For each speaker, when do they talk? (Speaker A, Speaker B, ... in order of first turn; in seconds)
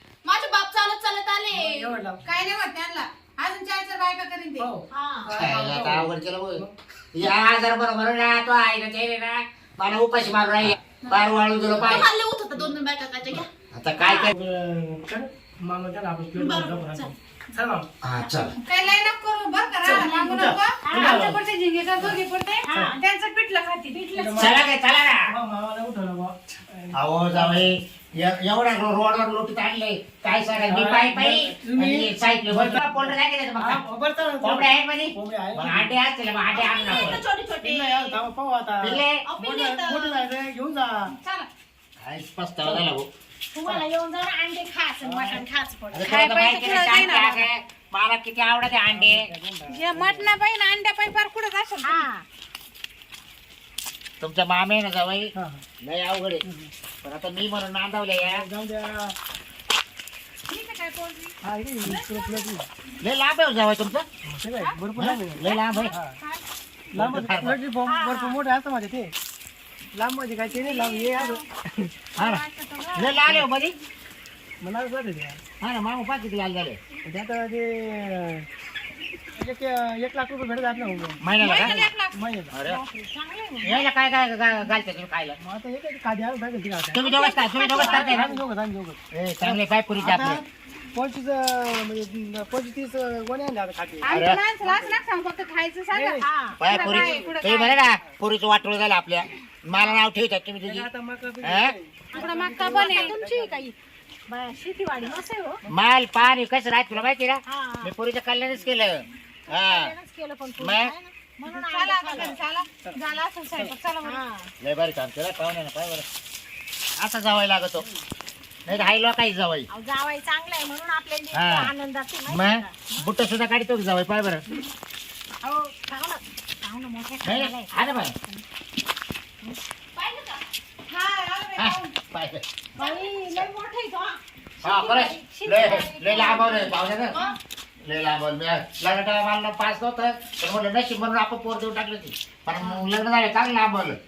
Speaker A: 0.2-1.9, 11.8-13.5, 16.3-17.1, 36.5-38.2, 39.2-40.2, 129.9-130.4, 137.1-137.3
Speaker B: 1.5-2.2, 4.6-6.7, 11.8-12.0, 14.1-17.9, 19.9-20.3, 24.1-24.6, 25.2-27.7, 30.6-35.9, 36.9-41.1, 42.6-42.9, 45.0-45.4, 48.9-50.4, 55.3-55.6, 56.5-56.7, 58.2-59.1, 61.4-62.6, 64.2-66.2, 66.9-69.1, 69.9-71.9, 74.6-75.4, 77.0-78.5, 79.3-82.5, 85.4-95.0, 95.9-97.4, 100.6-103.7
Speaker C: 2.2-4.7, 18.6-24.0, 41.1-41.5, 46.0-47.5, 49.7-52.0, 60.5-62.5, 70.6-71.4, 72.2-73.2, 81.4-82.2, 87.0-88.2, 94.0-97.8, 102.1-103.2, 111.5-114.2, 130.9-131.9
Speaker D: 4.9-5.3, 19.9-21.3, 22.6-22.9, 23.9-24.6, 43.5-46.1, 51.8-52.2, 65.7-66.4, 67.8-68.4, 82.6-83.8, 96.2-96.6, 102.1-103.7, 104.3-105.6, 107.5-107.9, 109.5-112.4, 114.0-114.5, 119.7-123.1, 125.4-127.7, 132.8-137.3
Speaker E: 5.3-12.1, 13.7-14.3, 18.0-18.5, 20.9-21.4, 24.4-25.3, 26.9-33.8, 34.4-37.2, 38.8-39.2, 42.0-43.1, 45.9-49.2, 54.2-56.4, 57.0-58.4, 63.0-64.0, 65.0-65.9, 66.9-67.6, 72.2-72.4, 72.9-73.8, 75.6-76.8, 81.2-81.8, 82.5-82.8, 83.6-85.4, 86.9-88.4, 89.1-90.4, 94.1-94.4, 96.6-100.9, 101.4-101.7, 105.7-109.9, 110.6-110.9, 114.6-116.0, 117.0-117.9, 118.7-119.7, 121.3-121.7, 122.3-124.4, 127.2-128.1, 131.6-132.4, 133.2-133.5, 134.6-137.2, 137.8-144.0